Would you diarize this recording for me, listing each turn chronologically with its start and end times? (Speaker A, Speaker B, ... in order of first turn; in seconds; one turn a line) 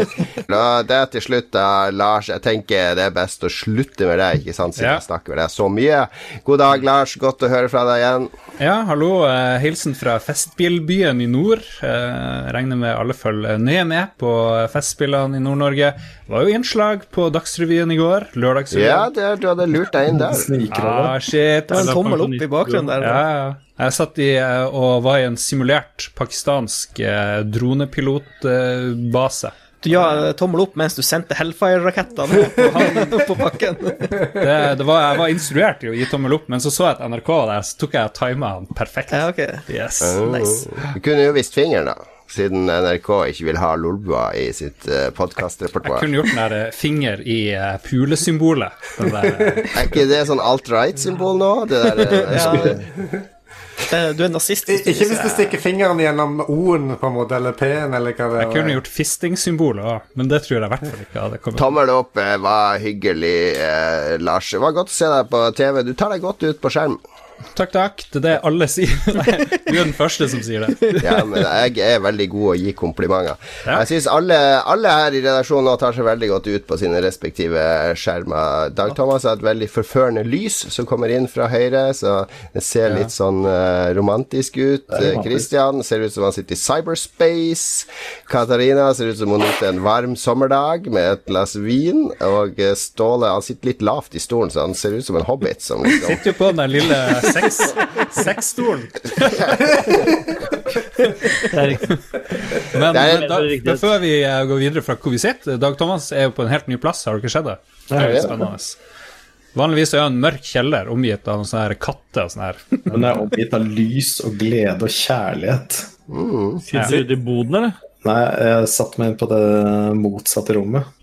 Speaker A: 0.5-8.3
Speaker B: 8.6-19.1
Speaker A: 18.7-20.5
Speaker C: 20.2-21.2
Speaker B: 20.7-22.3
Speaker D: 21.7-23.2
Speaker E: 21.7-23.0
Speaker B: 23.0-29.5
Speaker D: 29.8-34.3
Speaker B: 32.7-33.0
Speaker B: 34.4-40.2
Speaker D: 39.1-39.7
Speaker A: 40.0-46.1
Speaker D: 40.2-40.6
Speaker B: 45.8-49.7
Speaker A: 49.7-52.8
Speaker D: 52.1-52.8
Speaker D: 53.9-55.6
Speaker F: 54.7-58.8
Speaker B: 58.4-61.7
Speaker A: 61.6-67.0
Speaker B: 67.5-71.3
Speaker A: 71.0-96.2
Speaker C: 84.9-85.4
Speaker B: 95.9-100.1
Speaker E: 101.5-101.9
Speaker B: 102.5-108.8
Speaker A: 102.9-103.2
Speaker E: 102.9-103.9
Speaker C: 107.9-108.4
Speaker A: 108.0-108.3
Speaker B: 109.5-113.0
Speaker C: 112.9-115.9
Speaker A: 116.1-116.6
Speaker E: 116.7-117.8
Speaker B: 116.7-117.0
Speaker C: 118.0-120.8